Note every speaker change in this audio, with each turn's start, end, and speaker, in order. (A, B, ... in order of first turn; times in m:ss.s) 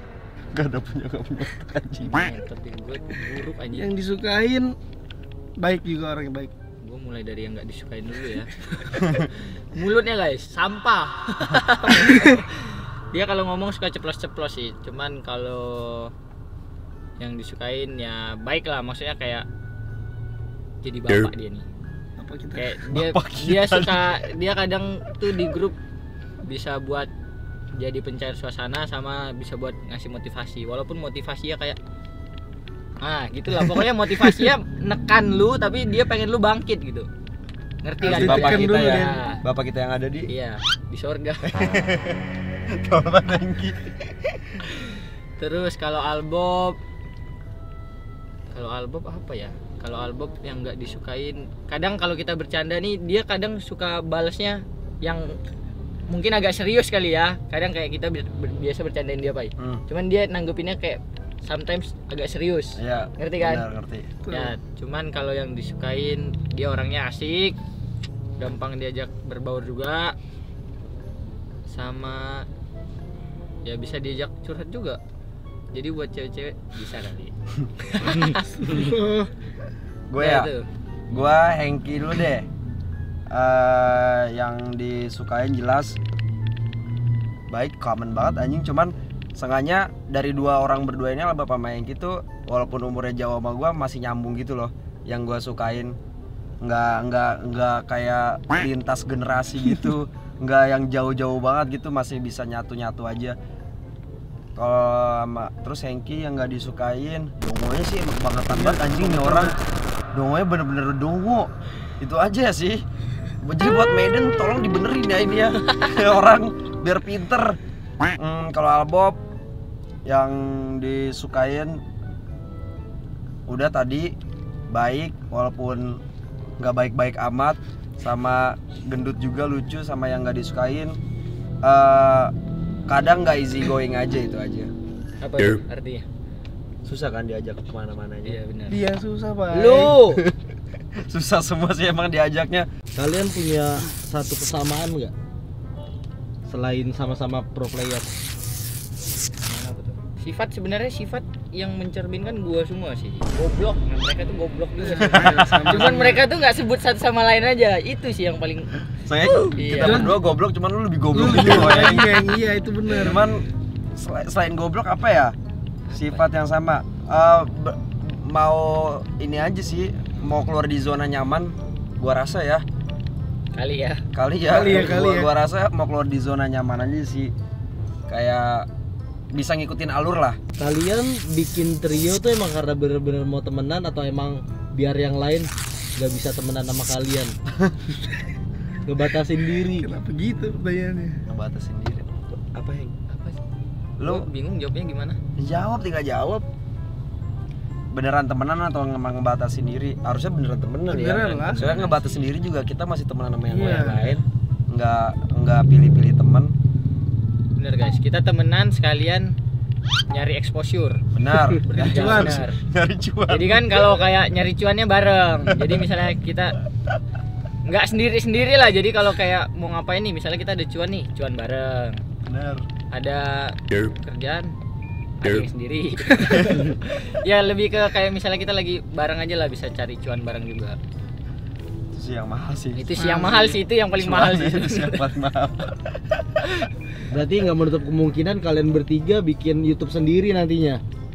0:00.5-0:02.2 A
0:02.0-0:03.9 B
0:03.8-0:04.7 C
0:05.6-0:06.5 C
0:06.8-0:16.1 B
0:17.2-0:19.4 B
0:20.8-0:21.7 B
0:22.2-0:22.7 C
0:22.6-0:25.8 B
0:22.9-0:24.2 A
0:26.4-0:27.1 B
0:27.8-0:31.8 B
0:33.0-0:37.1 B
0:37.8-0:39.4 B
0:38.0-0:39.2 C
0:38.0-0:40.3 A
0:40.3-0:41.6 B
0:41.5-0:42.2 A
0:42.7-0:44.6 A
0:45.4-0:46.8 B
0:48.5-0:55.4 B
0:56.1-1:03.6 B
0:59.6-0:59.8 A
1:02.8-1:04.1 A
1:04.3-1:04.5 C
1:04.3-1:07.6 B
1:08.4-1:10.2 B
1:11.7-1:12.5 B
1:13.6-1:15.0 B
1:15.7-1:17.3 B
1:17.9-1:19.0 B
1:18.6-1:19.3 C
1:20.1-1:20.5 A
1:20.2-1:20.7 B
1:21.1-1:22.5 A
1:23.3-1:26.0 A
1:27.5-1:36.0 A
1:36.6-1:43.4 A
1:39.7-1:40.0 C
1:44.6-1:49.6 A
1:48.5-1:49.6 C
1:50.1-1:52.8 A
1:53.4-1:57.6 A
1:58.2-1:59.2 A
2:00.1-2:01.8 A
2:03.5-2:04.1 A
2:04.7-2:06.0 A
2:06.6-2:11.0 A
2:11.6-2:12.3 A
2:12.9-2:14.7 A
2:15.2-2:16.0 B
2:16.8-2:18.4 A
2:18.2-2:18.8 B
2:18.7-2:20.0 C
2:19.5-2:20.2 B
2:21.1-2:22.7 A
2:23.0-2:25.1 D
2:26.5-2:28.1 D
2:29.4-2:38.8 B
2:34.8-2:36.2 C
2:35.2-2:36.1 A
2:39.1-2:42.2 A
2:39.5-2:40.2 B
2:39.8-2:40.2 C
2:41.1-2:43.2 C
2:42.9-2:43.4 A
2:44.0-2:45.3 A
2:45.9-2:46.3 B
2:45.9-2:52.6 A
2:53.5-2:54.0 B
2:54.1-2:57.3 A
2:54.5-2:55.3 C
2:58.1-2:58.7 A
2:59.3-3:00.4 A
3:00.6-3:07.4 D
3:08.8-3:09.9 D
3:09.8-3:11.2 C
3:11.3-3:13.0 A
3:13.1-3:13.4 B
3:14.0-3:14.3 A
3:14.0-3:15.2 B
3:15.4-3:16.4 A
3:17.9-3:26.5 A
3:20.9-3:21.6 C
3:21.4-3:22.3 B
3:23.5-3:24.0 C
3:23.6-3:24.2 B
3:27.6-3:29.3 B
3:30.1-3:31.0 B
3:31.2-3:34.1 A
3:31.5-3:32.4 C
3:31.6-3:32.6 B
3:33.3-3:36.6 B
3:37.7-3:42.0 B
3:42.3-3:42.6 A
3:42.9-3:44.5 B
3:45.2-3:50.8 B
3:46.2-3:46.6 A
3:51.9-3:52.9 A
3:52.8-3:55.1 B
3:53.0-3:53.6 C
3:54.0-3:56.4 A
3:57.1-4:00.8 D